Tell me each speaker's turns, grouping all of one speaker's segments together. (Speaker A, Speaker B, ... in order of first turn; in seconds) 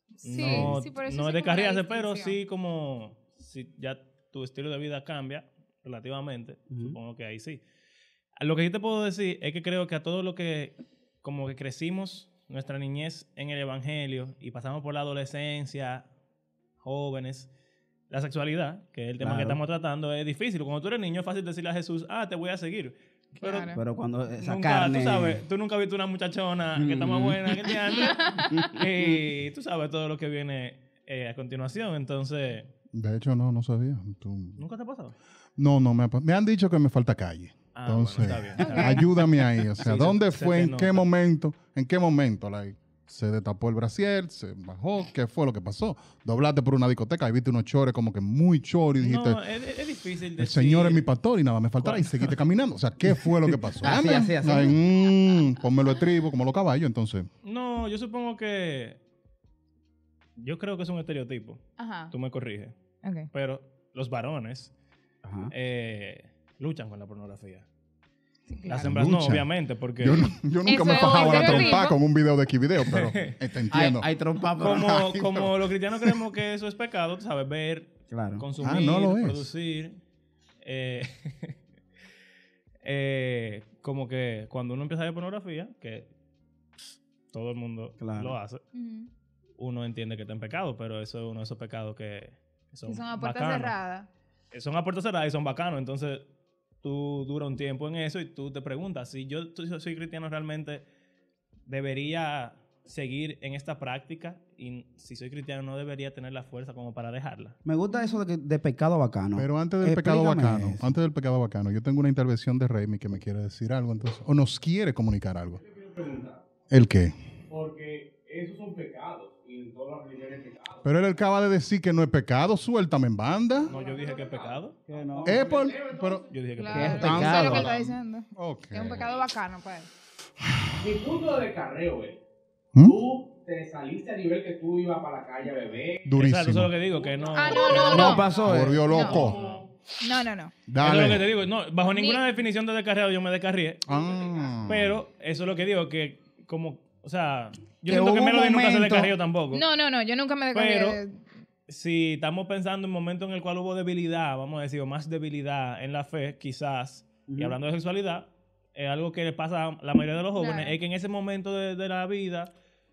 Speaker A: 0.2-7.6, 8.4-16.1, 16.8-17.5, 18.1-23.8, 24.4-32.7, 34.6-35.2, 37.8-39.1, 39.8-41.0, 49.0-51.0, 51.8-52.4, 57.4-59.0, 60.4-62.8, 63.3-64.7, 65.5-67.7, 68.7-71.9, 72.8-73.4, 74.6-80.0, 80.6-81.6, 82.8-86.1, 86.8-88.6, 89.6-93.8, 94.5-96.2, 96.8-100.8, 101.7-107.6, 123.7-124.8, 126.3-127.7, 136.2-138.2, 139.0-139.6, 140.8-143.8, 144.7-149.7, 150.5-151.0, 151.7-162.5
Speaker B: 0.2-2.4, 23.4-23.8, 27.9-28.7, 38.6-39.0, 61.8-62.1, 63.0-63.3, 68.5-68.9, 70.7-72.0, 88.7-89.1, 92.9-94.1, 107.9-108.2, 126.6-129.9, 137.3-138.3, 138.9-139.2, 140.0-140.6, 141.9-142.2, 149.5-151.2, 160.4-160.8
Speaker C: 0.3-0.7, 6.7-7.0, 19.2-19.6, 23.7-25.4, 26.8-27.8, 28.5-29.2, 53.5-54.8, 65.2-65.5, 73.7-75.2, 78.1-78.5, 88.0-88.4, 107.7-111.0, 124.9-125.5, 126.6-127.8, 137.9-138.9, 147.9-149.1, 157.3-157.6
Speaker D: 32.9-34.6, 35.6-49.4, 50.4-57.3, 68.8-69.5, 70.0-74.1, 75.2-75.5, 78.6-79.5, 109.4-115.6, 116.7-117.1, 120.8-123.7, 125.3-126.2, 127.0-129.1, 136.1-136.7, 137.9-139.4, 140.7-141.3, 143.9-145.0
Speaker E: 115.6-116.4, 117.5-120.9, 123.6-126.4, 130.8-132.2, 132.8-136.2, 136.8-139.7, 143.9-144.7